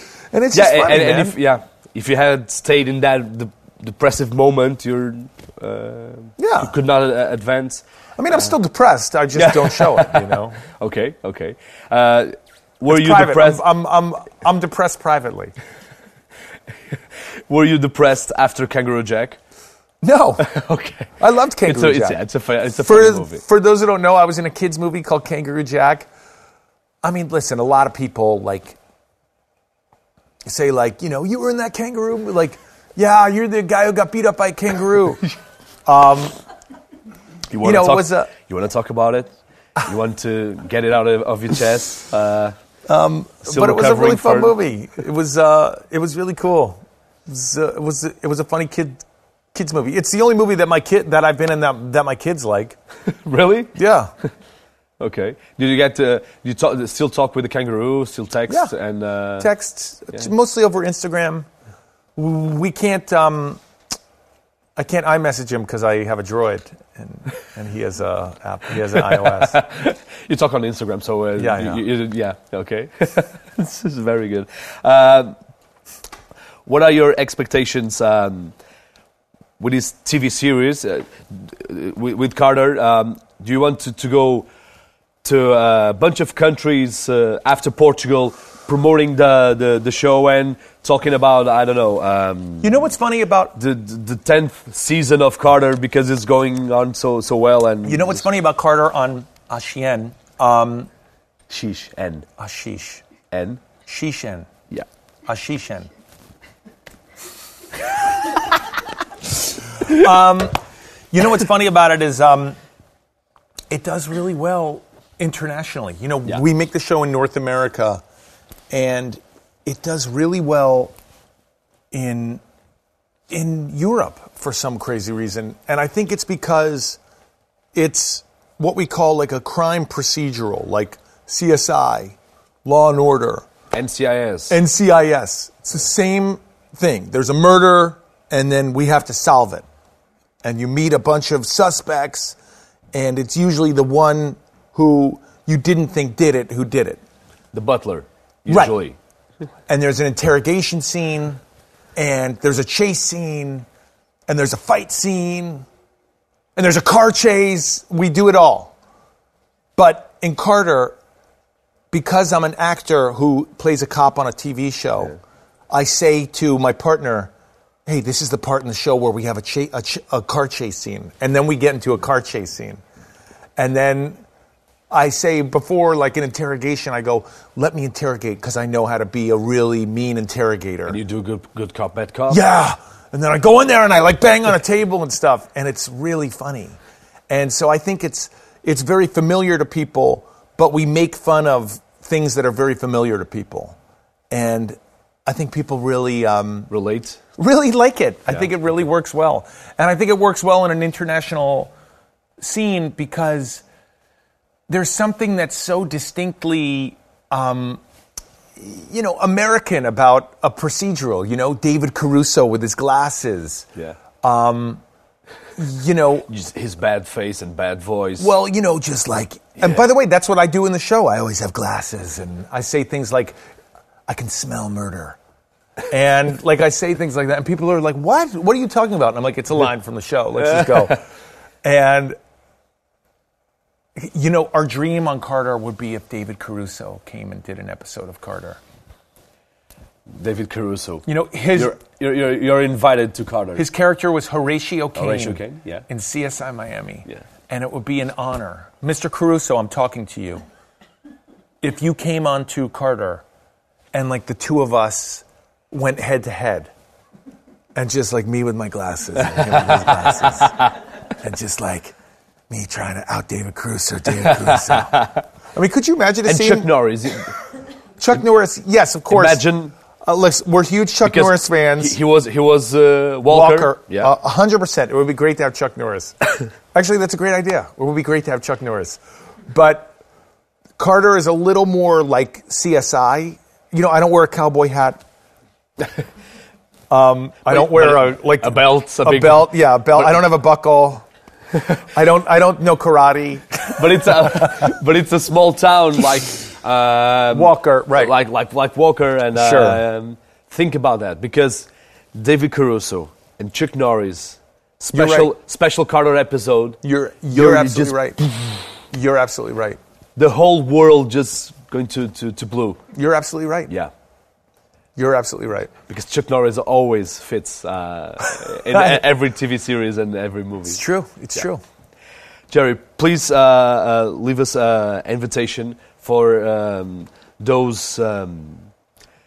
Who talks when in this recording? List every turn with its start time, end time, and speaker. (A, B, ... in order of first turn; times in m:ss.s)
0:00.3-0:01.4 A
0:00.5-0:07.8 B
0:06.4-0:06.7 A
0:08.2-0:10.6 A
0:09.4-0:13.6 B
0:12.9-0:15.6 A
0:16.9-0:19.4 B
0:20.0-0:20.5 A
0:20.4-0:23.4 B
0:21.2-0:22.2 A
0:22.8-0:26.1 A
0:27.0-0:28.8 A
0:30.4-0:35.2 A
0:35.9-0:36.4 A
0:37.5-0:39.3 B
0:37.6-0:38.3 A
0:39.8-0:42.5 B
0:42.9-0:52.8 A
0:43.5-0:44.6 B
0:53.1-0:53.8 B
0:53.8-0:54.1 A
0:55.0-0:59.5 B
0:59.4-1:01.5 A
1:02.2-1:03.6 A
1:04.8-1:09.6 A
1:09.3-1:15.4 B
1:11.4-1:11.8 A
1:16.7-1:18.6 B
1:19.6-1:24.5 B
1:25.2-1:32.8 B
1:32.6-1:33.6 A
1:33.6-1:38.3 B
1:37.8-1:40.9 A
1:41.5-1:42.3 B
1:42.4-1:43.0 A
1:43.3-1:43.6 B
1:43.9-1:44.5 A
1:45.3-1:45.9 A
1:49.8-1:50.6 A
1:51.1-1:52.6 A
1:53.7-1:58.0 A
1:58.7-2:01.0 A
2:01.9-2:02.4 A
2:03.3-2:07.0 A
2:07.7-2:13.5 A
2:13.7-2:14.6 B
2:14.5-2:19.6 A
2:20.4-2:22.4 A
2:22.9-2:27.0 A
2:27.5-2:29.0 B
2:28.5-2:28.8 A
2:29.7-2:31.4 A
2:32.0-2:33.7 A
2:34.3-2:35.7 A
2:36.6-2:38.8 A
2:39.8-2:41.0 A
2:41.9-2:45.2 A
2:45.7-2:47.3 A
2:47.9-2:52.8 A
2:53.6-2:54.2 A
2:54.9-3:01.0 A
3:00.9-3:02.4 B
3:02.3-3:06.8 A
3:07.3-3:13.8 A
3:14.3-3:16.7 A
3:16.7-3:17.2 B
3:17.4-3:21.7 A
3:22.4-3:23.6 A
3:24.7-3:27.8 A
3:28.6-3:33.7 A
3:34.2-3:34.8 A
3:35.6-3:36.3 A
3:36.3-3:38.3 B
3:38.2-3:43.4 A
3:44.1-3:45.2 A
3:45.9-3:51.0 A
3:51.6-3:52.2 A
3:54.0-3:58.6 A
4:00.1-4:03.7 B
4:01.1-4:01.8 A
4:03.6-4:10.4 A
4:05.0-4:05.8 B
4:11.6-4:13.2 A
4:13.9-4:16.7 A
4:17.8-4:20.6 A
4:21.2-4:22.0 A
4:22.5-4:25.0 A
4:24.4-4:25.2 B
4:25.5-4:26.7 A
4:26.2-4:27.4 B
4:28.0-4:29.4 A
4:29.1-4:29.7 B
4:30.0-4:32.0 A
4:31.0-4:34.1 B
4:33.3-4:36.2 A
4:36.7-4:39.9 A
4:40.8-4:45.0 A
4:46.9-4:51.0 A
4:47.5-4:49.6 B
4:51.9-4:54.7 A
4:53.7-5:06.8 B
4:57.3-4:58.1 A
4:59.4-4:59.8 A
5:04.9-5:05.3 A
5:06.8-5:08.3 A
5:07.3-5:08.0 B
5:08.9-5:09.8 A
5:10.2-5:12.8 B
5:12.9-5:13.7 A
5:15.0-5:15.7 A
5:15.9-5:20.8 B
5:18.7-5:19.0 A
5:20.7-5:21.6 A
5:22.5-5:28.7 B